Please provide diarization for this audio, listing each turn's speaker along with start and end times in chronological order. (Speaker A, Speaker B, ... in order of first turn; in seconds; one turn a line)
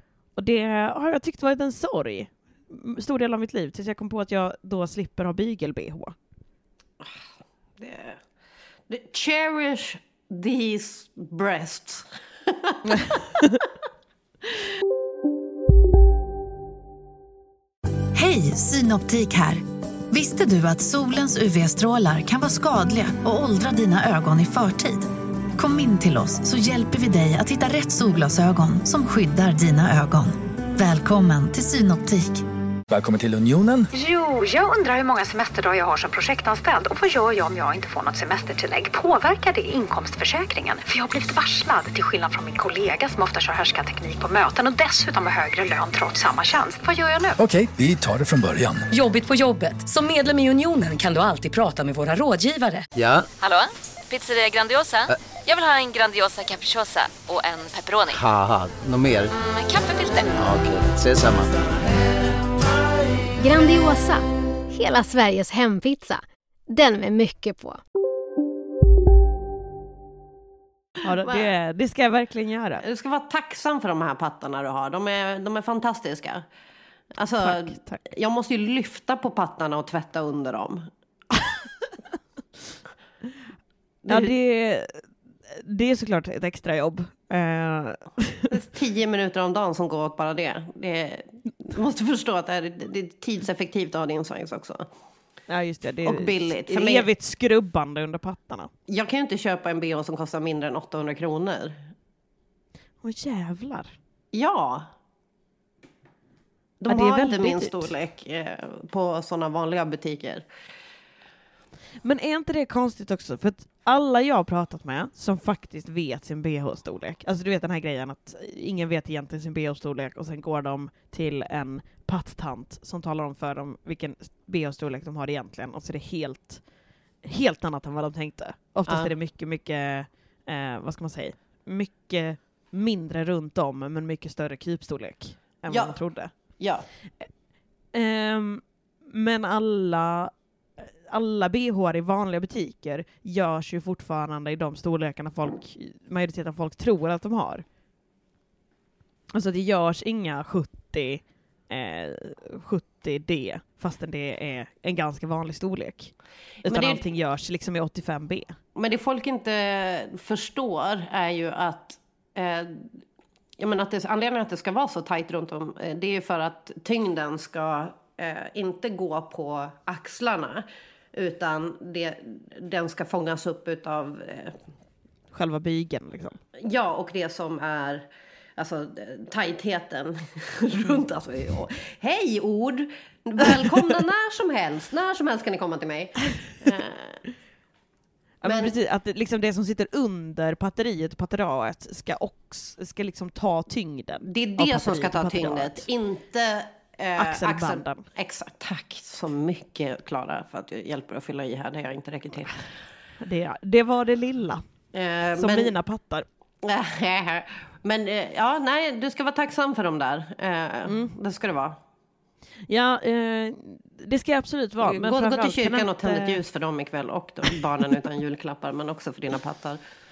Speaker A: 0.4-6.1
Speaker B: 7.8-8.2
Speaker B: 8.9-13.2
Speaker A: 12.9-13.6
Speaker C: 18.1-32.4
Speaker D: 32.9-33.9
Speaker E: 33.9-47.4
Speaker D: 47.4-48.9
Speaker F: 48.9-52.9
Speaker G: 52.9-53.3
Speaker H: 53.4-58.2
Speaker G: 58.0-59.3
Speaker H: 59.6-60.2
Speaker G: 60.3-61.5
Speaker I: 63.4-67.8
Speaker A: 71.0-72.8
Speaker B: 71.2-71.5
Speaker B: 72.8-76.4
Speaker B: 77.2-80.9
Speaker A: 77.4-78.0
Speaker B: 84.0-84.3
Speaker A: 84.1-88.5
Speaker B: 88.5-94.9
Speaker A: 95.5-98.7
Speaker B: 96.0-97.1
Speaker B: 98.9-101.8
Speaker A: 103.0-104.0
Speaker B: 104.3-104.9
Speaker B: 106.8-110.5
Speaker A: 106.9-107.9
Speaker A: 112.0-126.6
Speaker A: 127.2-136.3
Speaker B: 128.9-129.1
Speaker B: 135.7-136.0
Speaker B: 136.6-136.8
Speaker A: 137.9-147.6
Speaker A: 149.3-156.1
Speaker B: 156.6-157.0
Speaker A: 156.6-158.6
Speaker B: 158.7-163.0
Speaker B: 163.6-174.6
Speaker A: 175.3-176.4
Speaker B: 176.6-187.2
Speaker A: 188.4-195.9
Speaker B: 188.4-188.7
Speaker B: 194.2-202.6
Speaker A: 197.2-198.1
Speaker A: 203.2-204.6
Speaker B: 204.9-205.7
Speaker A: 205.3-206.2
Speaker B: 206.6-211.8
Speaker A: 210.9-211.1
Speaker A: 212.7-216.4
Speaker B: 214.8-219.8